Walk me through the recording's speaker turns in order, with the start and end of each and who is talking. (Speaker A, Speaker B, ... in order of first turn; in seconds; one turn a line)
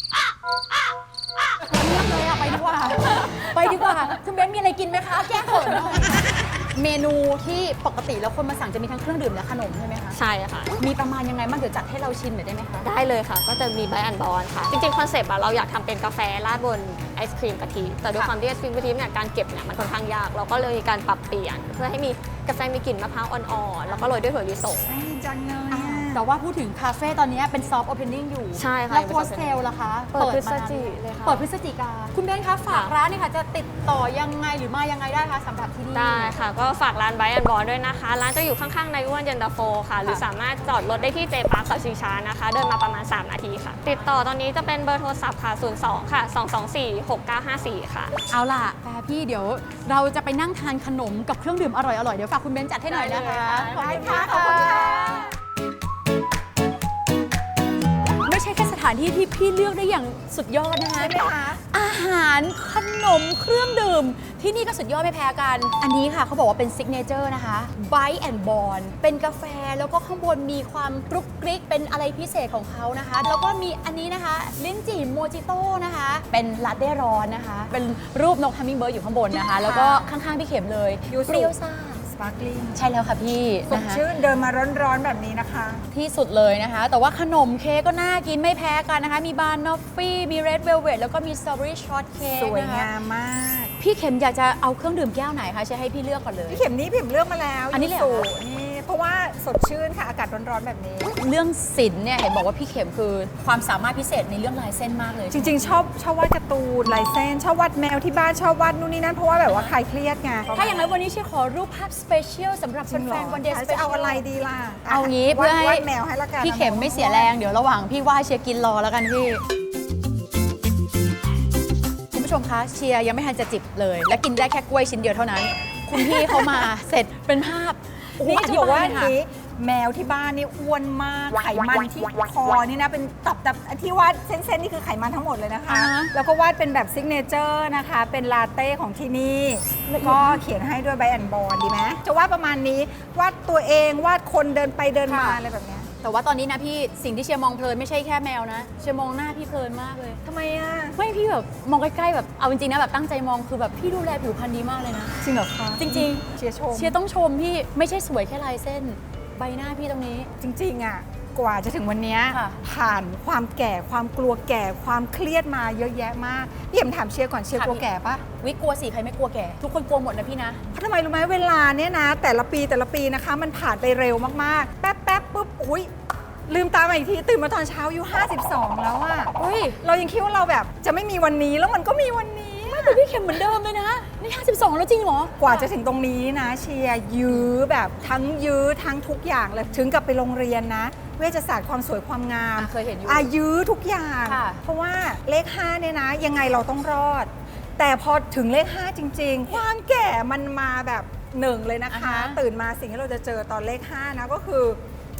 Speaker A: 1.6-10.2
Speaker B: 10.1-10.7
Speaker A: 10.8-12.9
Speaker B: 12.8-24.9
Speaker C: 24.8-26.2
Speaker A: 25.7-36.3
Speaker B: 28.5-29.6
Speaker B: 30.1-31.4
Speaker B: 35.9-48.1
Speaker A: 48.3-55.3
Speaker C: 52.9-55.3
Speaker A: 58.2-61.1
Speaker C: 60.9-61.6
Speaker A: 61.7-82.0
Speaker C: 79.6-80.1
Speaker C: 81.1-82.8
Speaker A: 82.7-84.0
Speaker C: 83.7-85.8
Speaker A: 85.9-92.9
Speaker C: 92.2-93.7
Speaker A: 93.8-96.6
Speaker C: 96.5-101.1
Speaker A: 97.7-98.2
Speaker A: 101.2-105.8
Speaker C: 105.3-110.8
Speaker A: 109.5-109.7
Speaker A: 110.5-114.2
Speaker C: 112.9-117.3
Speaker A: 114.9-115.9
Speaker A: 116.4-119.4
Speaker A: 122.1-129.1
Speaker C: 125.9-126.7
Speaker C: 128.2-145.9
Speaker A: 135.7-136.1
Speaker A: 139.9-140.4
Speaker A: 145.1-145.4
Speaker A: 146.0-150.2
Speaker C: 150.2-151.0
Speaker A: 150.9-155.2
Speaker C: 155.2-156.9
Speaker A: 155.7-160.3
Speaker C: 160.4-168.2
Speaker A: 162.3-162.6
Speaker A: 167.5-167.8
Speaker A: 168.4-170.6
Speaker C: 170.7-175.9
Speaker C: 176.5-183.0
Speaker A: 179.4-179.8
Speaker A: 182.7-185.7
Speaker C: 185.4-204.8
Speaker A: 192.6-193.3
Speaker A: 194.2-194.6
Speaker A: 201.9-202.4